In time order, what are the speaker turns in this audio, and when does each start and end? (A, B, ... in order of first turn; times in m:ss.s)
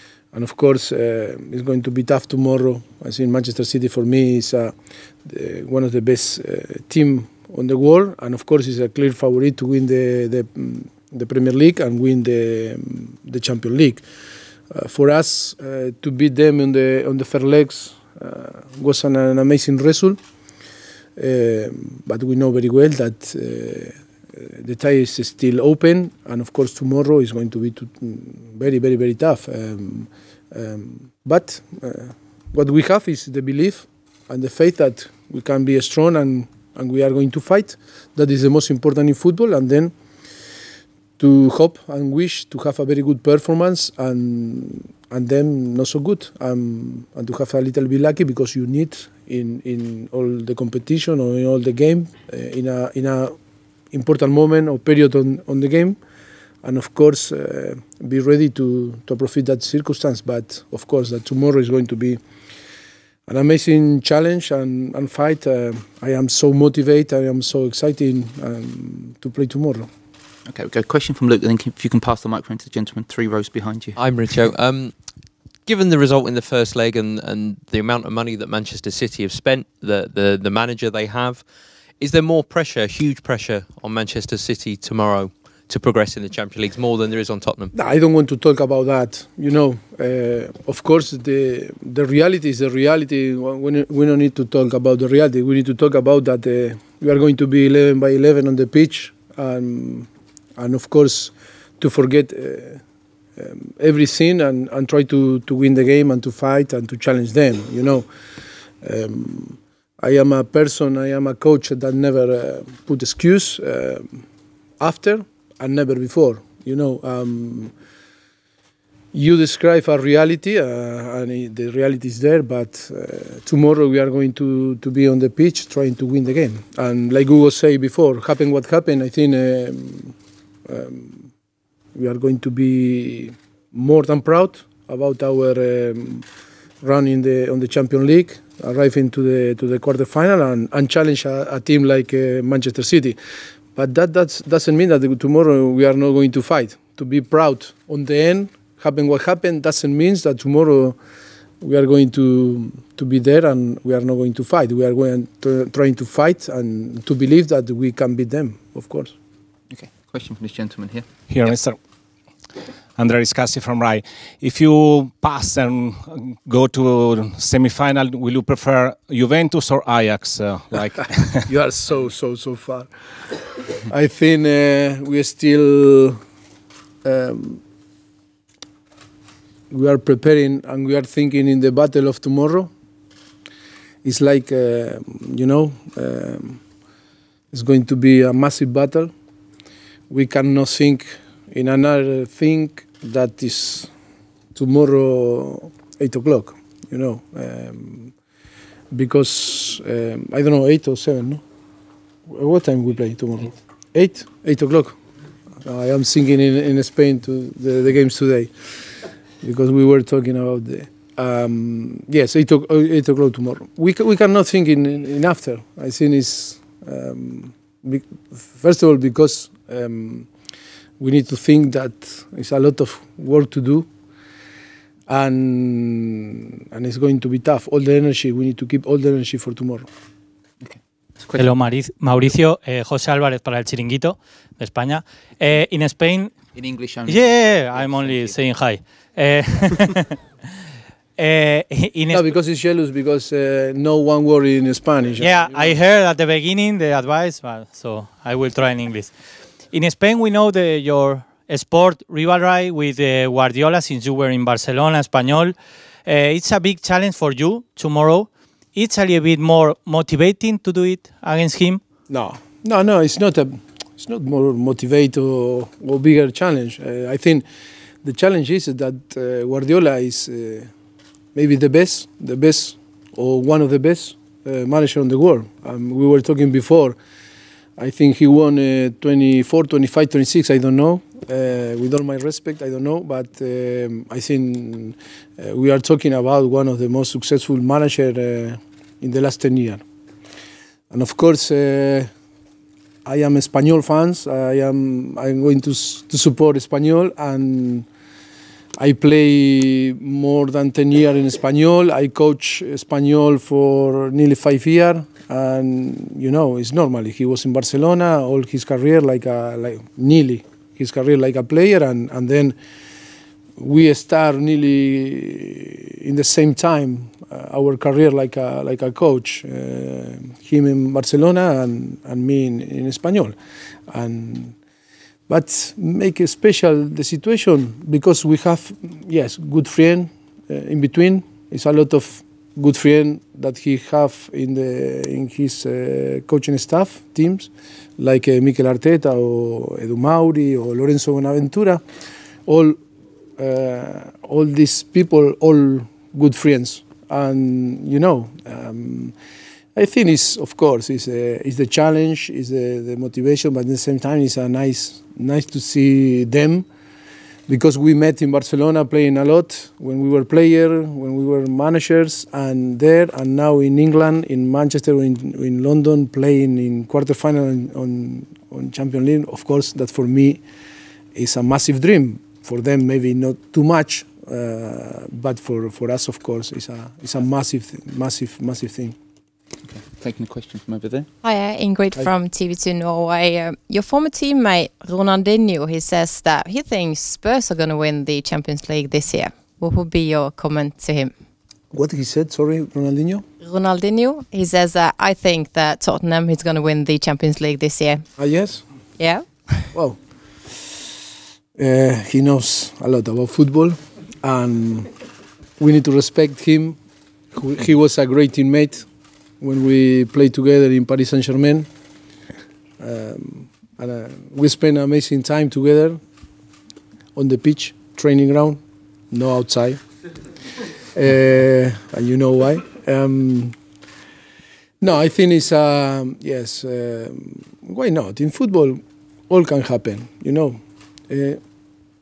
0:00.3-0:04.7 A
0:05.2-0:14.0 A
0:14.7-0:20.2 A
0:21.2-0:39.9 A
0:41.2-0:53.3 A
0:53.9-0:56.0 A
0:56.6-1:02.2 A
1:03.3-1:09.9 A
1:10.5-1:14.0 B
1:14.0-1:14.9 C
1:15.6-1:21.4 C
1:22.0-1:27.7 C
1:27.7-1:42.8 A
1:43.4-1:48.1 A
1:48.8-1:54.2 A
1:54.8-1:57.7 A
1:59.1-2:10.1 A
2:10.6-2:11.3 A
2:11.9-2:16.2 A
2:16.8-2:23.2 A
2:23.7-2:31.0 A
2:31.6-2:39.1 A
2:39.7-2:41.1 B
2:41.3-2:41.8 D
2:43.0-2:51.5 D
2:51.4-2:52.9 A
2:53.8-2:56.2 A
2:57.0-2:57.6 A
2:59.7-3:02.7 A
3:04.0-3:06.6 A
3:07.5-3:09.1 A
3:10.1-3:13.9 A
3:14.5-3:18.1 A
3:18.9-3:21.4 A
3:22.3-3:25.0 A
3:25.6-3:28.8 A
3:29.4-3:40.3 A
3:41.0-3:43.9 A
3:45.1-3:49.9 A
3:50.6-3:51.5 B
3:51.3-3:56.3 E
3:56.5-3:58.4 B
3:57.1-4:00.1 E
4:01.2-4:02.3 E
4:02.1-4:05.8 A
4:05.2-4:09.1 E
4:09.7-4:21.8 E
4:22.1-4:27.4 A
4:28.0-4:30.7 A
4:31.3-4:37.0 A
4:37.8-4:49.8 A
4:50.9-4:52.1 A
4:53.0-4:57.9 A
4:58.8-5:12.6 A
5:13.6-5:23.3 A
5:23.9-5:24.6 A
5:25.3-5:41.8 A
5:42.4-5:42.8 A
5:43.4-5:49.1 A
5:49.7-5:56.6 A
5:57.5-6:10.4 A
6:11.1-6:19.0 A
6:19.6-6:21.1 B
6:21.2-6:31.1 F
6:31.7-6:33.2 A
6:33.4-6:38.1 F
6:38.2-6:38.6 A
6:39.0-6:39.4 F
6:39.7-6:40.0 A
6:41.6-6:44.9 A
6:45.6-6:46.8 A
6:47.3-6:48.9 A
6:49.4-6:51.7 A
6:52.8-6:56.0 A
6:57.1-6:58.6 A
6:59.1-6:59.8 A
7:00.9-7:03.6 A
7:04.8-7:11.4 A